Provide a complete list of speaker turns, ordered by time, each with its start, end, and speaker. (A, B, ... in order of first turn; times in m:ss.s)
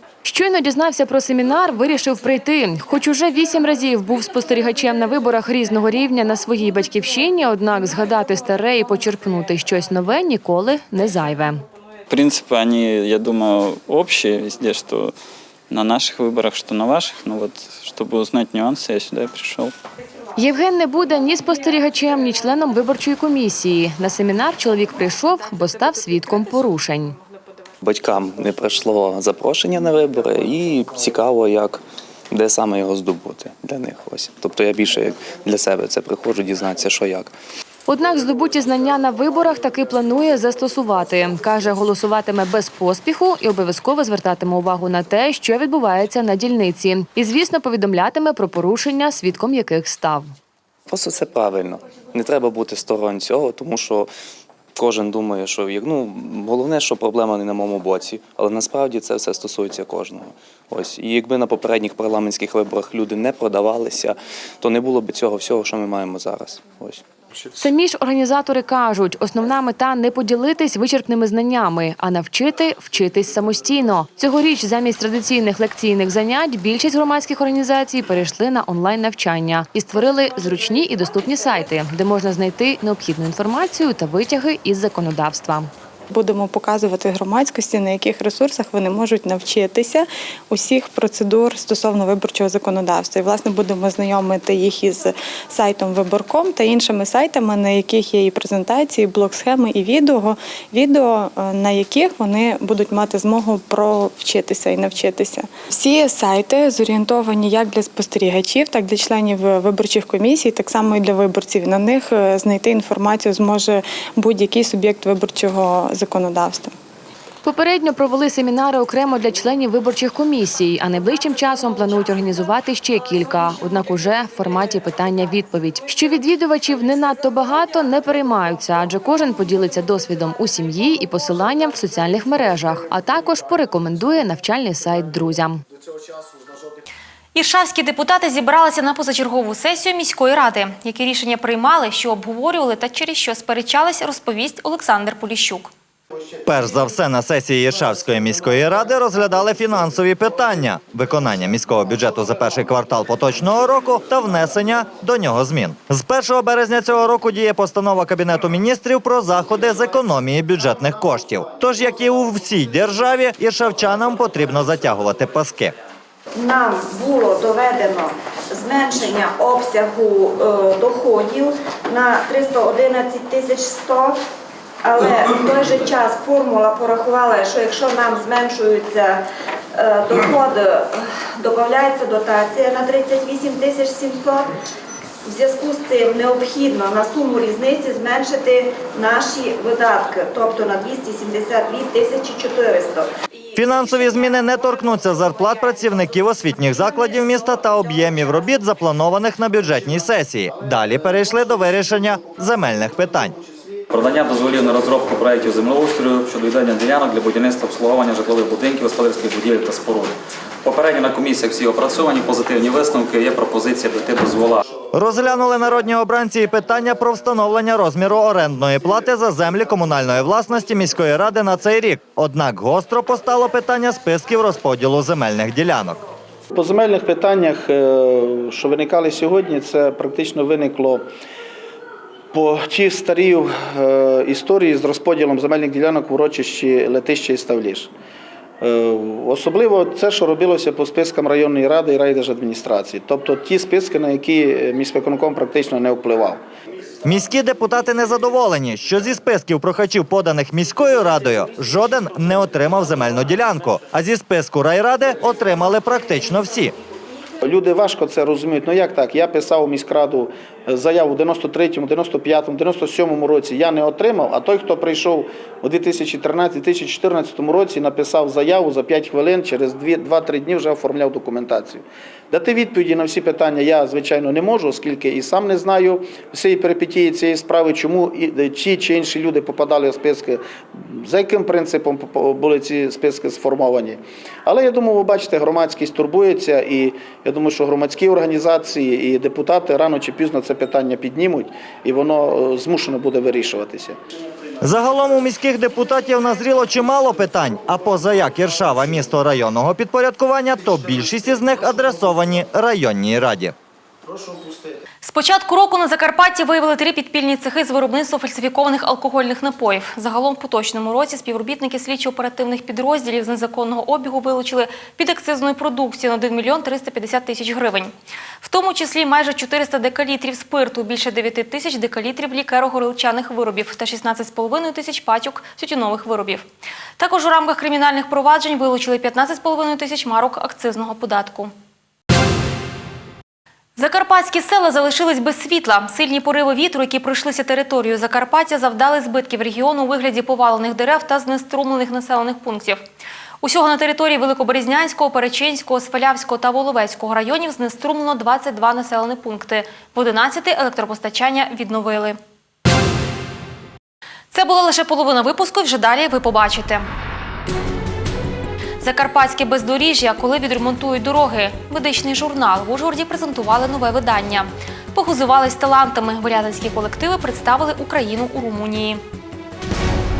0:00.2-0:11.6 A
0:12.1-0:15.2 B
0:15.7-0:19.7 B
0:20.4-0:27.2 A
0:27.8-0:37.3 C
0:37.9-0:50.3 A
0:50.9-0:54.1 C
0:54.8-1:07.0 C
1:07.6-1:25.7 A
1:26.1-1:56.7 D
1:57.4-2:15.6 A
2:17.4-2:25.7 E
2:26.5-2:45.8 F
2:46.4-2:54.2 G
2:54.8-2:59.2 G
2:59.8-3:04.5 G
3:05.3-3:13.1 G
3:13.6-3:23.4 F
3:23.9-3:34.6 H
3:34.9-3:46.0 F
3:46.5-3:51.1 I
3:52.3-3:57.9 I
3:58.6-4:06.4 I
4:07.0-4:16.8 F
4:17.4-4:54.0 I
4:54.6-5:03.6 F
5:05.0-5:26.5 E
5:27.0-5:31.5 E
5:33.8-5:42.8 E
5:43.4-5:52.2 E
5:54.3-5:56.8 E
5:58.8-6:09.0 E